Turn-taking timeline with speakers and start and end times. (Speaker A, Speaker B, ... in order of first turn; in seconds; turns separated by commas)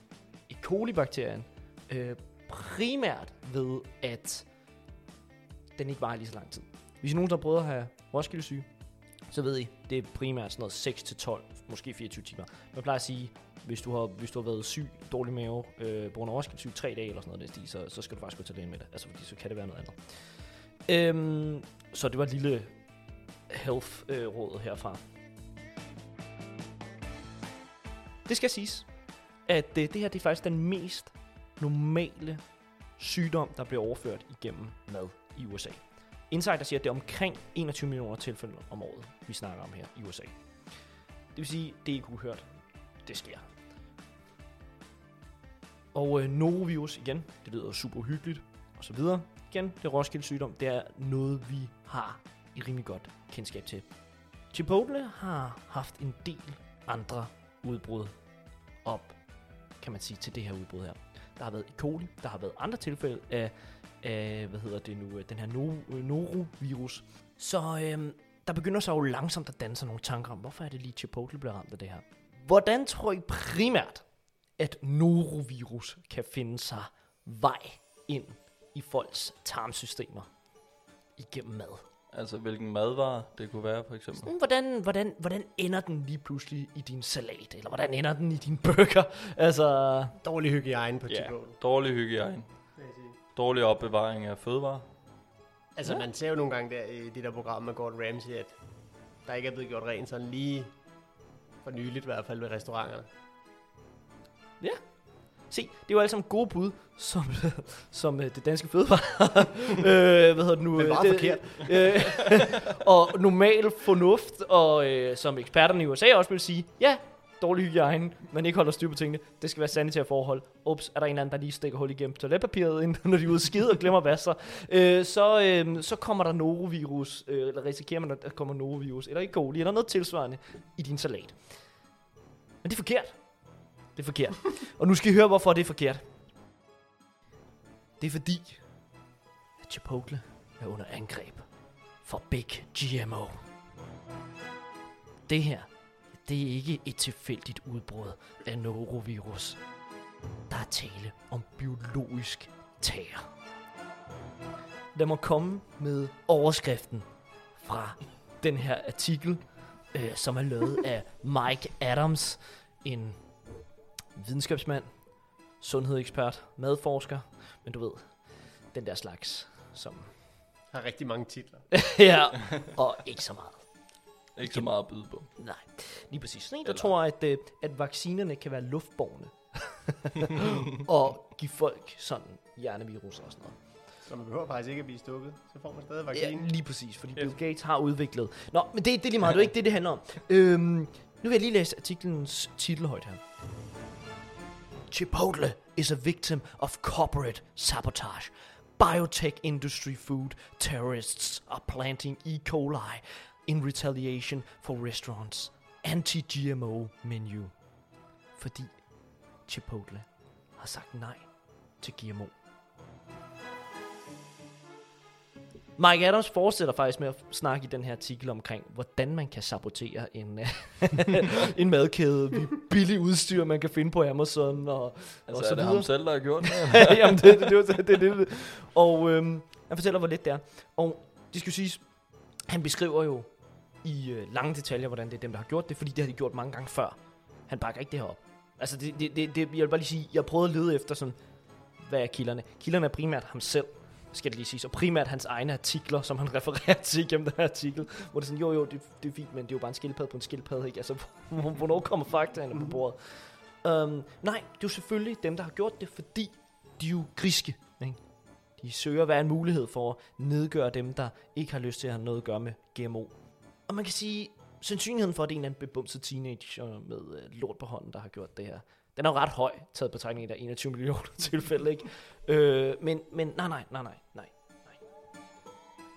Speaker A: 0.5-4.5, Speaker A: 5.8-25.0, Speaker A: 28.2-43.5, Speaker A: 45.9-81.8, Speaker B: 82.1-84.3, Speaker A: 84.2-90.2, Speaker C: 90.2-91.6, Speaker B: 91.1-92.8, Speaker C: 92.8-93.2, Speaker B: 93.3-94.8, Speaker C: 95.8-101.1, Speaker C: 101.6-103.1, Speaker A: 104.6-132.0, Speaker C: 110.8-112.3, Speaker A: 132.6-136.0, Speaker A: 138.0-139.0, Speaker A: 139.6-143.4, Speaker A: 145.3-149.8, Speaker A: 150.5-153.3, Speaker A: 154.9-170.2, Speaker C: 170.7-171.9, Speaker A: 171.7-183.7, Speaker B: 174.3-175.3, Speaker B: 176.6-176.9, Speaker C: 184.1-186.7, Speaker A: 186.1-193.2, Speaker A: 194.9-212.3, Speaker A: 215.8-274.9, Speaker B: 225.3-227.4